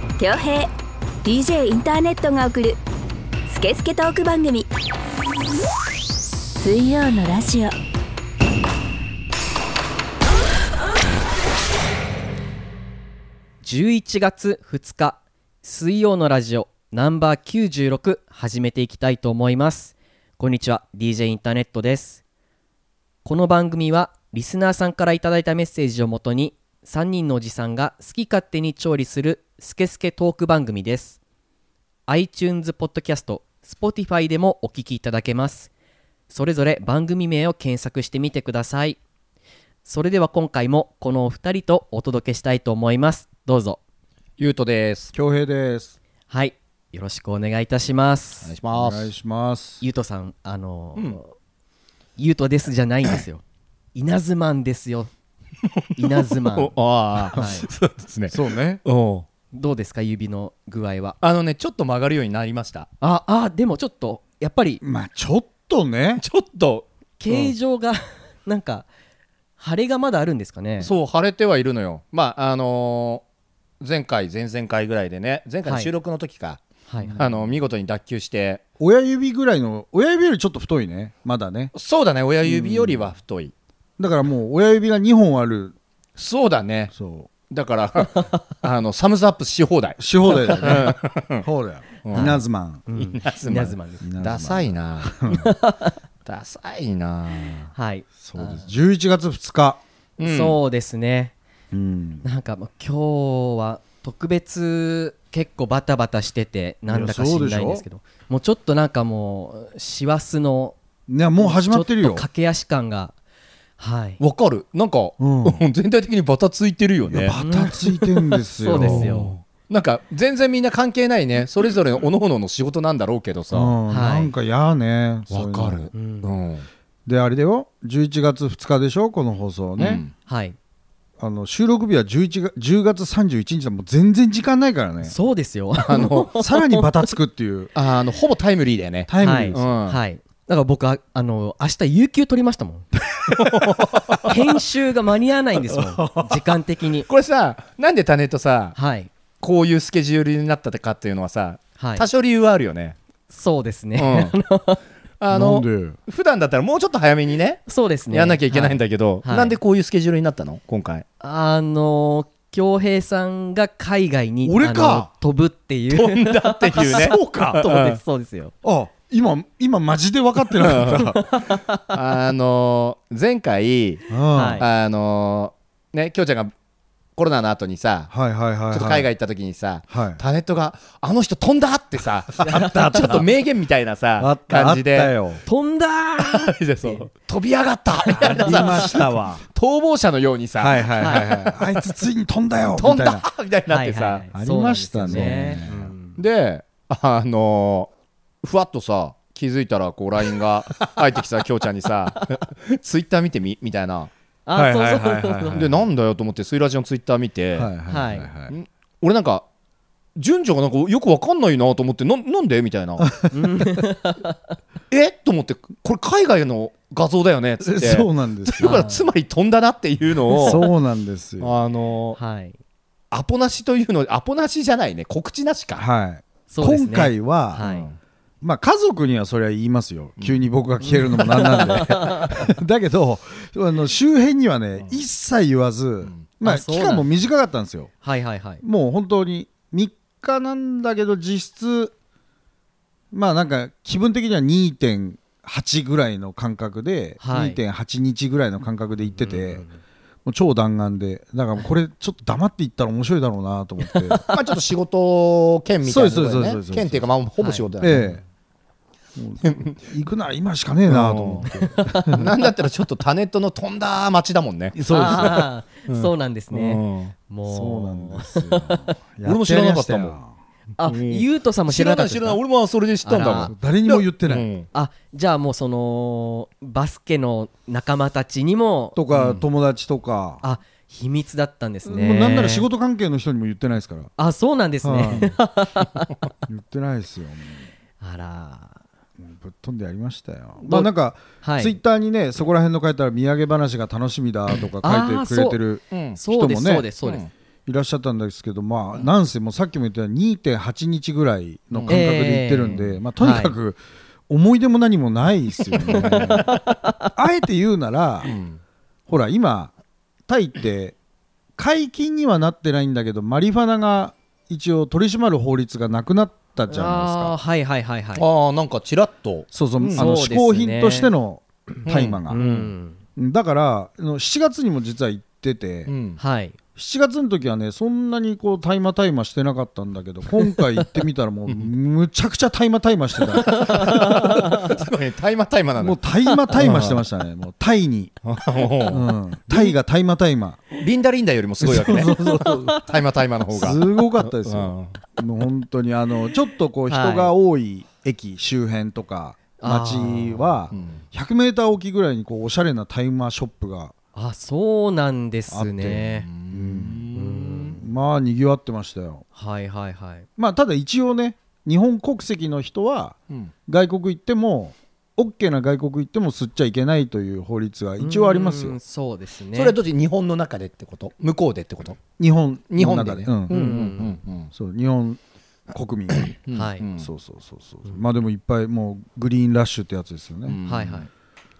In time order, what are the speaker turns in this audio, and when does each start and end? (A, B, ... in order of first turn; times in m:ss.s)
0:00.2-0:00.7 A
0:01.2-0:02.8 A
0:03.5-0:04.7 A
0:06.6-0:07.8 A
0:13.6-0:22.2 B
0:23.2-0:31.2 B
0:32.1-0:35.7 B
0:36.3-0:39.0 B
0:39.8-0:43.8 B
0:44.4-0:45.1 C
0:45.1-0:46.0 D
0:46.3-0:48.5 B
0:48.4-0:49.1 C
0:48.7-0:49.8 D
0:49.8-0:51.3 B
0:52.2-0:53.4 B
0:53.9-0:55.1 B
0:56.0-0:56.8 B
0:56.0-0:59.2 C
0:57.3-0:57.7 B
0:58.3-0:58.8 D
0:59.5-1:01.2 B
1:01.2-1:02.9 C
1:03.0-1:04.8 B
1:04.8-1:06.2 D
1:06.2-1:07.5 C
1:07.2-1:08.9 B
1:09.6-1:10.9 B
1:10.8-1:13.2 C
1:13.8-1:16.6 C
1:15.6-1:15.9 B
1:16.9-1:17.2 B
1:17.0-1:17.5 D
1:17.2-1:18.6 C
1:18.8-1:21.7 D
1:21.7-1:23.5 C
1:22.4-1:23.1 D
1:24.0-1:25.7 D
1:26.2-1:26.9 C
1:26.9-1:27.3 D
1:27.5-1:31.4 C
1:30.0-1:32.8 D
1:32.0-1:32.4 C
1:32.1-1:34.0 B
1:32.9-1:35.2 C
1:34.0-1:35.5 D
1:35.3-1:36.0 B
1:36.2-1:37.7 C
1:37.7-1:38.6 B
1:38.2-1:39.8 D
1:40.2-1:40.6 C
1:40.2-1:41.3 B
1:41.7-1:42.2 D
1:42.2-1:50.8 B
1:46.9-1:47.8 D
1:51.1-1:52.2 D
1:51.4-1:53.1 B
1:53.8-1:54.2 B
1:54.2-1:57.4 C
1:55.2-1:55.6 D
1:57.1-1:59.3 D
1:57.4-1:57.8 B
1:58.6-1:59.3 B
1:58.7-2:03.8 C
2:03.5-2:05.8 D
2:03.9-2:04.3 B
2:05.3-2:06.6 C
2:05.9-2:06.3 B
2:07.0-2:10.0 D
2:09.8-2:10.1 C
2:10.3-2:10.6 B
2:11.2-2:15.1 D
2:15.0-2:16.9 B
2:15.8-2:16.3 C
2:16.4-2:17.7 D
2:17.7-2:20.0 C
2:19.1-2:19.6 D
2:19.2-2:22.9 B
2:23.2-2:24.1 D
2:23.4-2:24.3 C
2:24.2-2:27.1 B
2:27.1-2:28.8 C
2:28.8-2:29.1 B
2:29.4-2:33.0 C
2:31.8-2:32.0 B
2:33.3-2:34.8 B
2:34.0-2:34.3 C
2:35.2-2:41.0 C
2:35.3-2:36.0 D
2:37.7-2:39.6 B
2:41.2-2:48.5 B
2:44.4-2:45.1 D
2:45.9-2:48.0 C
2:46.8-2:47.6 D
2:48.6-2:51.2 D
2:50.6-2:51.1 C
2:51.1-2:51.9 B
2:51.9-2:54.0 C
2:54.1-2:54.6 D
2:54.4-2:54.6 B
2:54.6-2:56.5 C
2:57.2-2:58.1 C
2:58.1-2:59.1 D
2:58.7-3:05.1 C
2:59.9-3:00.2 D
3:02.4-3:03.0 B
3:02.5-3:03.2 D
3:04.2-3:05.4 D
3:05.4-3:07.1 B
3:06.2-3:11.9 C
3:08.1-3:08.8 B
3:08.3-3:09.4 D
3:10.6-3:13.2 D
3:12.7-3:14.2 C
3:13.7-3:16.2 B
3:14.3-3:15.9 D
3:15.1-3:15.4 C
3:16.2-3:17.9 C
3:18.4-3:24.1 C
3:24.4-3:25.6 B
3:24.5-3:25.9 D
3:25.5-3:27.7 C
3:27.6-3:28.5 D
3:27.9-3:28.3 B
3:28.5-3:29.4 C
3:30.2-3:33.1 C
3:33.0-3:33.3 D
3:33.3-3:34.4 B
3:34.9-3:40.6 C
3:37.6-3:38.8 D
3:38.6-3:39.1 B
3:40.4-3:41.5 D
3:41.4-3:42.2 C
3:42.2-3:42.6 B
3:43.1-3:45.8 C
3:45.8-3:47.6 D
3:46.5-3:47.9 B
3:47.6-3:48.0 C
3:48.4-3:57.9 D
3:51.2-3:52.3 B
3:56.4-3:57.1 B
3:58.0-3:58.6 B
3:58.6-4:01.9 D
4:03.1-4:09.6 D
4:07.2-4:07.6 B
4:09.1-4:09.8 B
4:10.2-4:14.2 D
4:14.3-4:18.0 C
4:15.8-4:17.0 D
4:17.4-4:18.1 B
4:17.8-4:18.2 D
4:19.2-4:22.2 D
4:19.4-4:19.8 C
4:20.9-4:21.4 C
4:21.5-4:22.2 B
4:22.1-4:27.1 C
4:24.7-4:25.5 D
4:24.9-4:28.9 B
4:27.4-4:30.3 D
4:29.2-4:30.2 C
4:30.8-4:32.4 B
4:30.8-4:34.7 C
4:33.0-4:33.5 B
4:33.4-4:34.5 D
4:34.7-4:39.0 B
4:38.9-4:40.4 D
4:39.1-4:39.4 C
4:40.4-4:42.7 B
4:41.8-4:44.1 D
4:44.2-4:46.1 B
4:44.8-4:45.4 D
4:46.5-4:47.6 D
4:48.0-4:48.8 B
4:49.2-4:56.9 D
4:50.6-4:50.9 B
4:51.4-4:51.8 B
4:54.8-4:55.6 B
4:55.9-4:56.2 C
4:56.2-4:57.2 B
4:57.0-4:57.3 C
4:57.7-5:06.5 D
5:01.7-5:02.0 C
5:01.9-5:03.6 B
5:05.9-5:06.5 C
5:06.5-5:07.1 B
5:07.1-5:08.4 D
5:08.2-5:08.6 C
5:09.1-5:09.7 D
5:10.3-5:11.0 D
5:11.6-5:17.3 D
5:16.7-5:18.2 B
5:18.2-5:20.1 C
5:19.5-5:22.4 D
5:19.9-5:21.1 B
5:21.8-5:22.7 C
5:22.3-5:23.0 B
5:23.2-5:25.9 D
5:25.9-5:26.2 C
5:26.2-5:26.6 B
5:26.8-5:33.9 D
5:33.4-5:36.0 C
5:33.5-5:34.6 B
5:35.8-5:38.1 D
5:36.5-5:37.0 C
5:38.2-5:39.7 C
5:38.9-5:40.7 D
5:40.8-5:42.1 C
5:41.6-5:42.8 D
5:42.2-5:42.5 B
5:42.7-5:45.0 C
5:43.5-5:53.9 D
5:46.9-5:47.3 B
5:49.6-5:50.6 B
5:50.7-5:51.0 C
5:54.1-5:56.3 B
5:55.5-5:57.1 D
5:56.3-5:57.8 C
5:57.1-5:57.8 B
5:57.7-5:59.2 D
5:59.4-6:00.3 B
6:00.4-6:03.2 D
6:03.7-6:08.8 D
6:08.0-6:09.8 B
6:09.5-6:12.0 C
6:12.2-6:13.5 D
6:12.7-6:14.5 C
6:13.5-6:14.2 B
6:14.5-6:16.3 D
6:16.1-6:17.1 C
6:16.5-6:16.8 B
6:17.0-6:20.6 D
6:20.5-6:21.1 C
6:20.6-6:21.1 B